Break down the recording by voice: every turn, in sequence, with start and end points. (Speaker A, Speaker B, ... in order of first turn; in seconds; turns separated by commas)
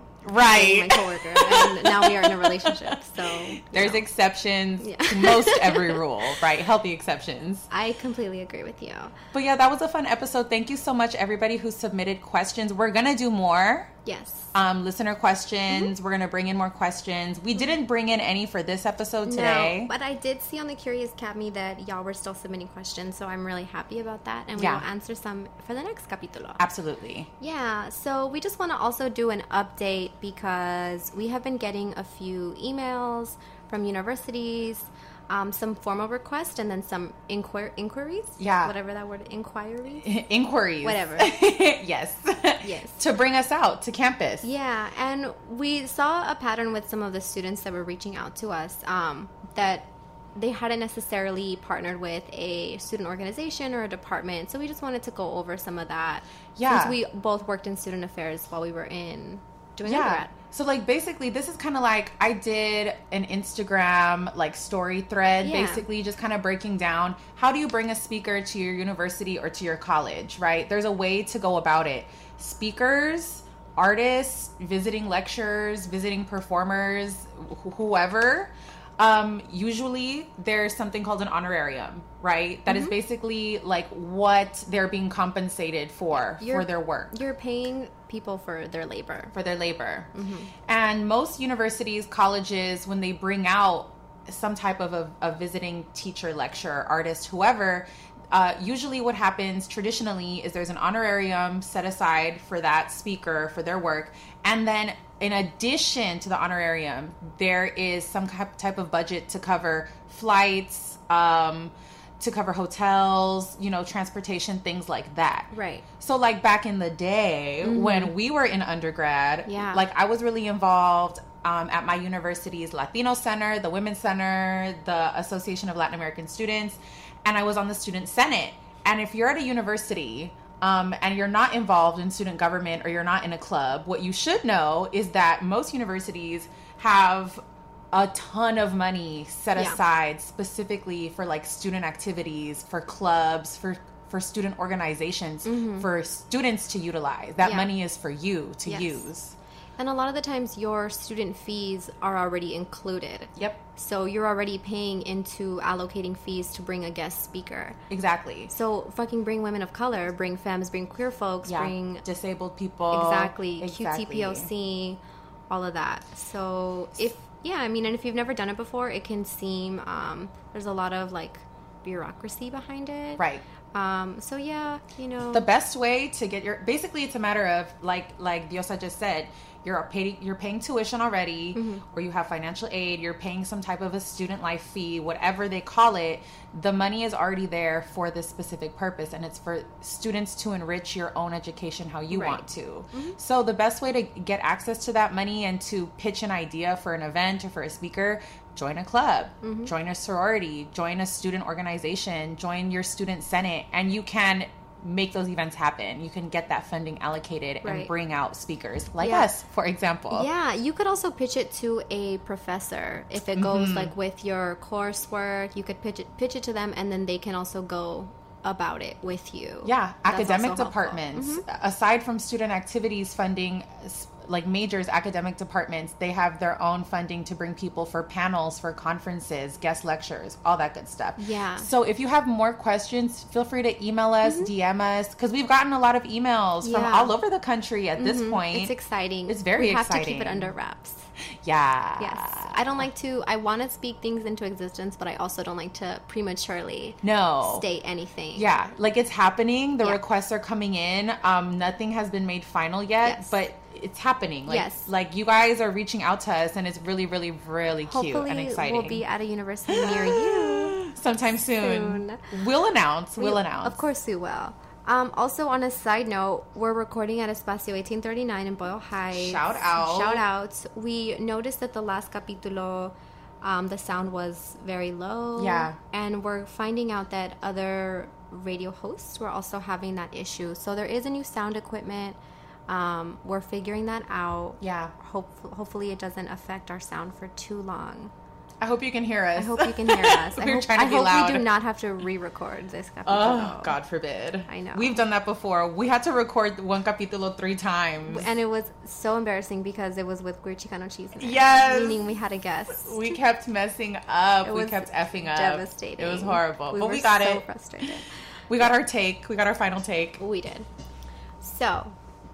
Speaker A: 0.2-7.7, Speaker B: 0.4-4.1, Speaker B: 4.8-6.0, Speaker B: 7.7-9.1, Speaker A: 9.3-13.9, Speaker B: 14.1-14.5, Speaker A: 14.5-19.9, Speaker B: 19.2-26.6, Speaker A: 24.5-24.9, Speaker A: 26.6-27.3, Speaker B: 27.4-40.1, Speaker A: 38.4-38.7, Speaker A: 40.0-44.5, Speaker B: 40.8-41.3, Speaker B: 42.6-43.0, Speaker B: 44.4-60.3, Speaker A: 56.5-57.0, Speaker A: 59.8-87.2, Speaker B: 65.4-65.8, Speaker B: 82.7-82.9, Speaker B: 86.1-89.3, Speaker A: 89.3-90.1, Speaker B: 90.1-90.5, Speaker A: 90.7-149.3, Speaker B: 115.5-115.8, Speaker B: 117.6-118.1, Speaker B: 119.5-119.8, Speaker B: 145.4-145.9, Speaker B: 147.4-147.7, Speaker B: 148.7-149.1, Speaker B: 149.8-157.8, Speaker A: 153.3-153.6, Speaker A: 157.9-158.5, Speaker B: 158.5-162.0, Speaker A: 161.4-164.5, Speaker B: 162.9-175.5, Speaker A: 173.2-173.4, Speaker A: 175.3-210.3, Speaker B: 181.5-181.8, Speaker B: 192.1-193.2, Speaker B: 199.4-199.7, Speaker B: 207.6-207.9, Speaker B: 209.0-209.3, Speaker B: 210.1-221.4, Speaker A: 213.3-213.9, Speaker A: 219.6-238.7, Speaker B: 231.2-231.7, Speaker B: 234.2-234.5, Speaker B: 236.6-237.2, Speaker B: 238.0-241.1, Speaker A: 239.3-240.5, Speaker A: 241.4-242.9, Speaker B: 242.0-248.5, Speaker A: 247.0-247.6, Speaker A: 248.3-259.0, Speaker B: 253.0-253.3, Speaker B: 254.5-254.9, Speaker B: 257.9-260.8, Speaker A: 259.7-263.8, Speaker B: 261.6-262.3, Speaker B: 263.2-288.1, Speaker A: 269.1-270.2, Speaker A: 275.4-275.8, Speaker A: 284.6-284.9, Speaker A: 288.6-291.5, Speaker B: 289.4-293.8, Speaker A: 293.1-298.3, Speaker B: 294.5-295.0, Speaker B: 298.1-303.0, Speaker A: 301.2-302.0, Speaker A: 302.7-307.4, Speaker B: 304.4-308.1, Speaker A: 308.5-310.2, Speaker B: 310.2-310.7, Speaker B: 311.4-311.9